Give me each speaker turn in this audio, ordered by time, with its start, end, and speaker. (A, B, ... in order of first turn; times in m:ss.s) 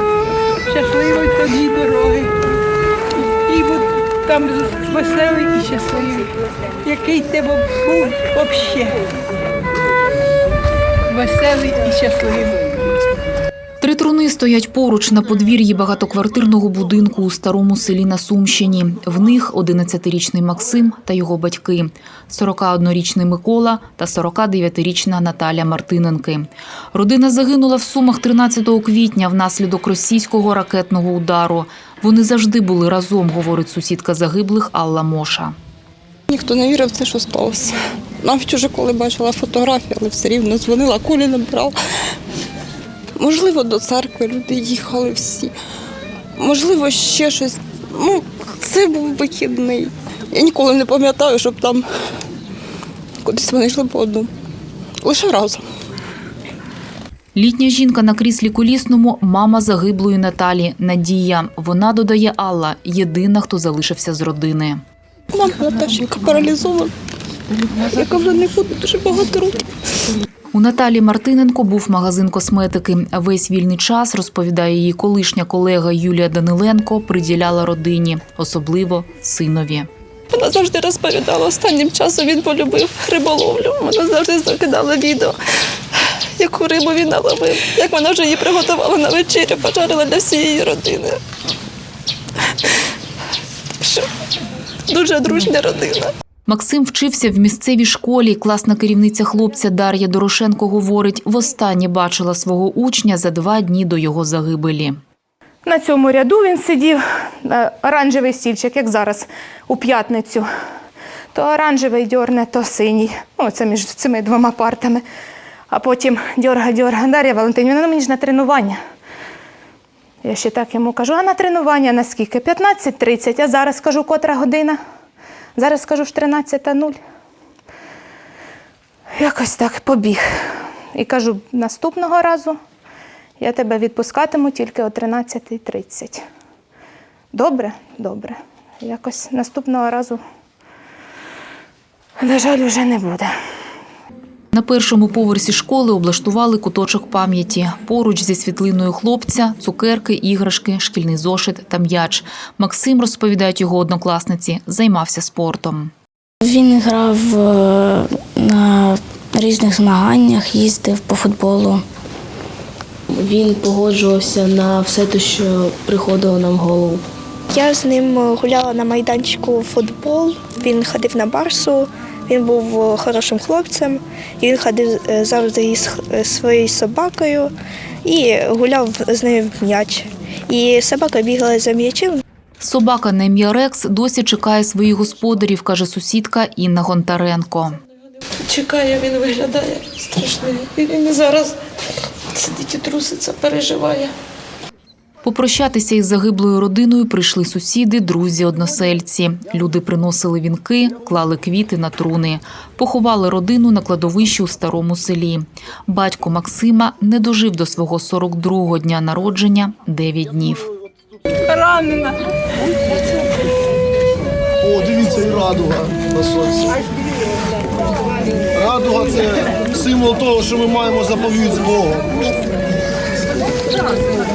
0:00.7-0:02.3 A
0:03.4-0:06.3 A
0:06.8-0:09.0 A
0:11.1-0:12.6 A
0:13.8-0:35.5 B
0:36.3-0:41.7 C
0:43.2-0:45.5 C
0:46.4-0:51.8 C
0:53.2-0:54.3 C
0:55.0-0:55.6 C
0:57.3-1:04.8 B
1:05.3-1:06.9 C
1:07.6-1:09.6 C
1:10.5-1:19.9 B
1:20.3-1:25.3 C
1:26.4-1:31.2 C
1:34.9-1:36.0 C
1:36.5-1:45.0 B
1:45.6-1:50.5 D
1:51.3-1:55.0 D
1:55.7-1:58.8 D
2:00.2-2:04.8 D
2:05.6-2:07.0 D
2:09.2-2:10.3 D
2:10.9-2:12.6 D
2:13.4-2:16.2 D
2:17.3-2:20.2 D
2:22.2-2:23.3 D
2:24.5-2:35.9 B
2:36.4-2:41.8 E
2:43.2-2:47.0 F
2:47.5-2:57.5 G
2:58.0-3:02.2 G
3:02.6-3:07.8 B
3:08.5-3:11.0 C
3:12.7-3:13.4 C
3:15.2-3:30.7 B
3:31.5-3:32.1 D
3:34.6-3:36.8 H
3:38.6-3:42.1 H